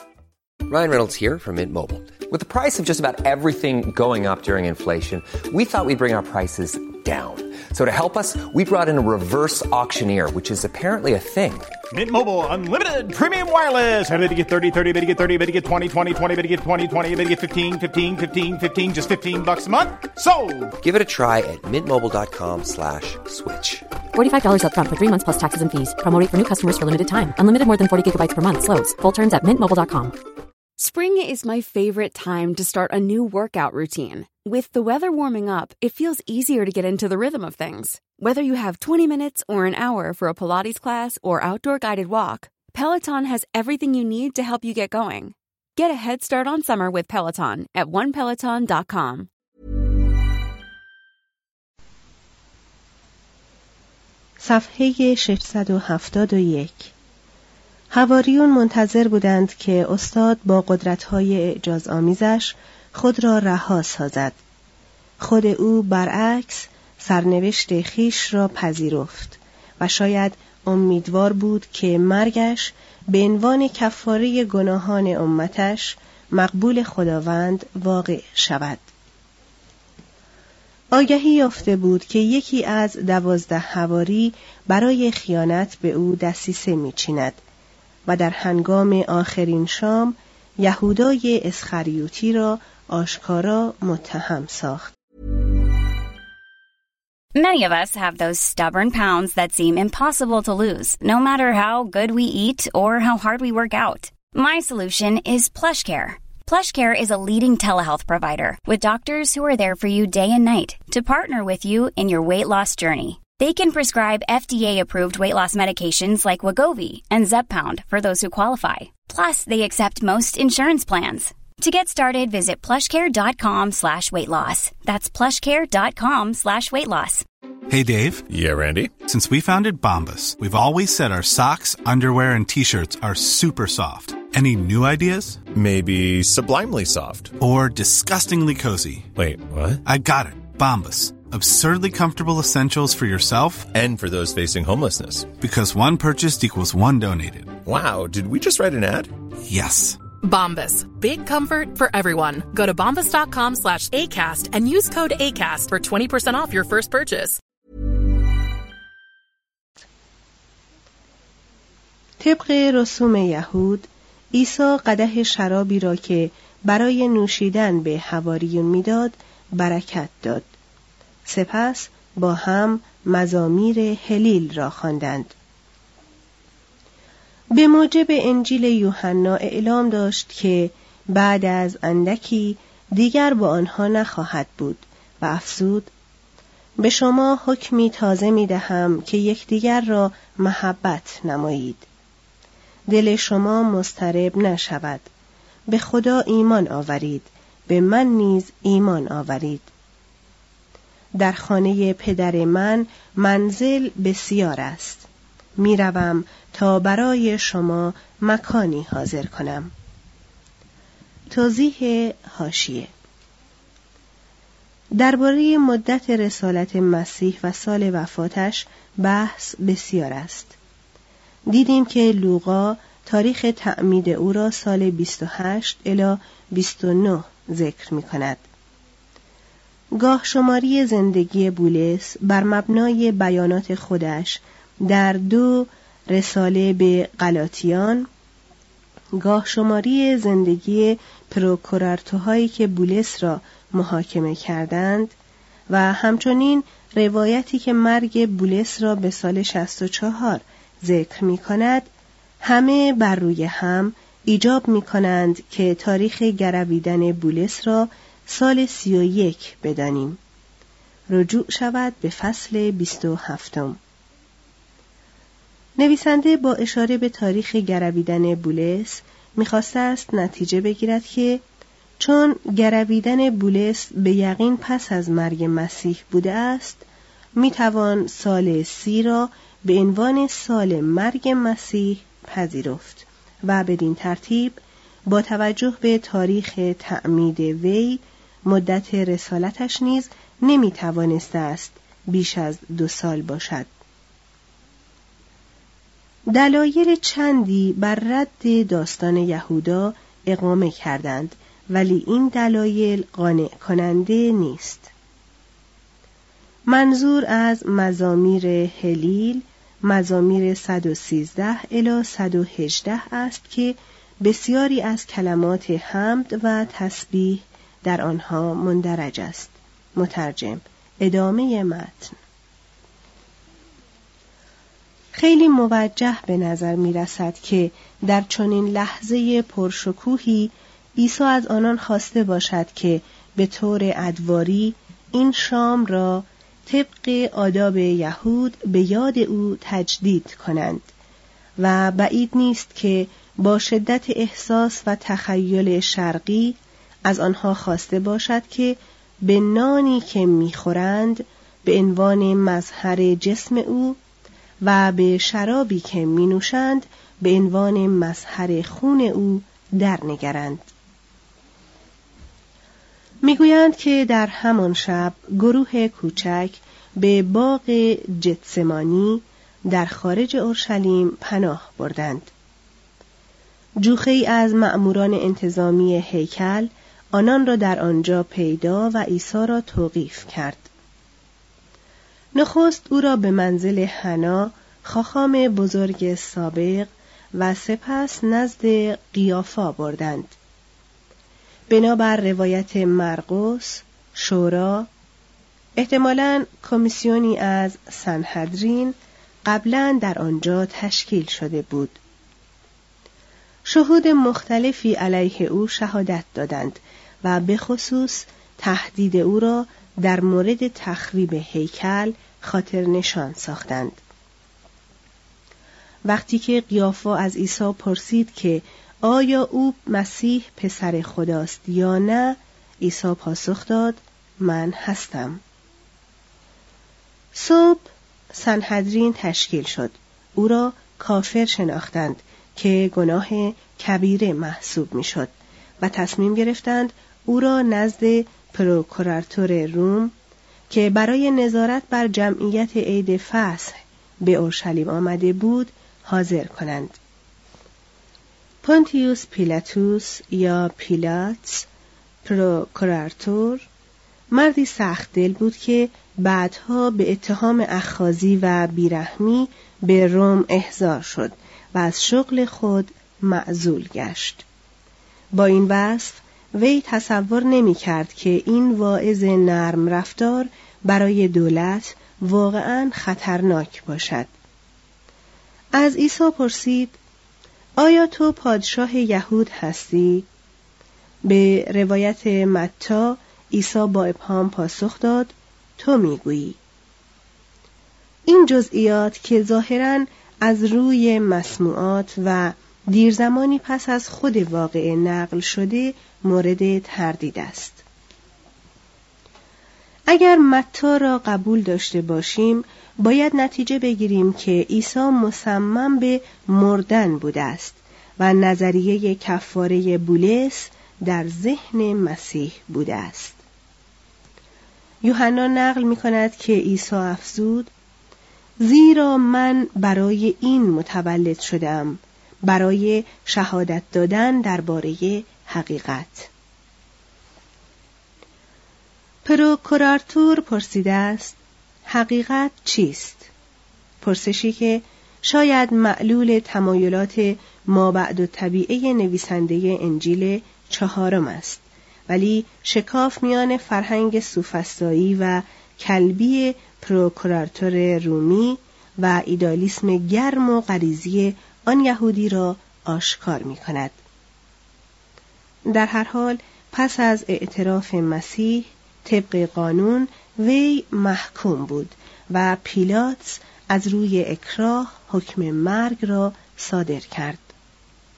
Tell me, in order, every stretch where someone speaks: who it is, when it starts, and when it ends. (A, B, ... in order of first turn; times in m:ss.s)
0:00.7-0:11.8 A
0:11.9-0:20.7 B
0:20.8-0:23.9 A
0:24.1-0:30.1 C
0:30.8-0:49.3 D
0:54.4-0:56.9 E
0:57.9-1:04.4 E
1:05.2-1:18.9 E
1:20.9-1:27.4 E
1:28.1-1:34.9 E
1:37.3-2:07.2 F
2:07.7-2:08.2 G
2:08.3-2:08.9 H
2:09.0-2:15.4 G
2:15.5-2:17.3 H
2:17.4-2:19.1 G
2:19.2-2:19.8 H
2:19.8-2:23.7 G
2:23.7-2:25.3 H
2:25.4-2:27.6 G
2:27.6-2:29.1 H
2:29.4-2:30.0 G
2:30.2-2:37.4 I
2:42.2-2:50.4 E
2:51.2-2:55.3 E
2:57.5-3:05.9 E
3:06.8-3:11.8 E
3:12.9-3:15.1 E
3:15.7-3:19.7 E
3:21.1-3:25.0 E
3:25.6-3:29.7 E
3:31.3-3:32.9 E
3:35.0-3:40.5 E
3:41.5-3:48.4 E
3:50.0-3:58.1 E
3:59.1-4:05.1 E
4:05.7-4:11.9 E
4:12.4-4:20.2 E
4:21.1-4:23.8 E
4:25.8-4:31.4 E
4:32.0-4:36.8 E
4:37.4-4:53.7 E
4:56.3-5:04.9 E
5:06.7-5:22.2 E
5:25.1-5:40.9 E
5:41.6-5:54.0 E
5:54.6-6:00.7 E
6:03.2-6:12.3 E
6:13.8-6:20.7 E
6:22.3-6:30.3 E
6:31.7-6:34.9 E
6:35.8-6:42.0 E
6:43.6-6:54.0 E
6:56.0-7:05.4 E
7:07.3-7:20.1 E
7:20.7-7:27.0 E
7:28.6-7:31.7 E
7:32.2-7:33.7 E
7:34.3-7:44.4 E
7:45.3-7:54.3 E
7:55.8-7:57.0 E
7:57.8-8:00.2 E
8:01.2-8:06.6 E
8:08.3-8:17.8 E
8:20.1-8:33.4 E
8:35.0-8:37.7 E
8:38.6-8:46.3 E
8:49.2-8:53.3 E
8:54.0-9:14.0 E
9:15.7-9:27.5 E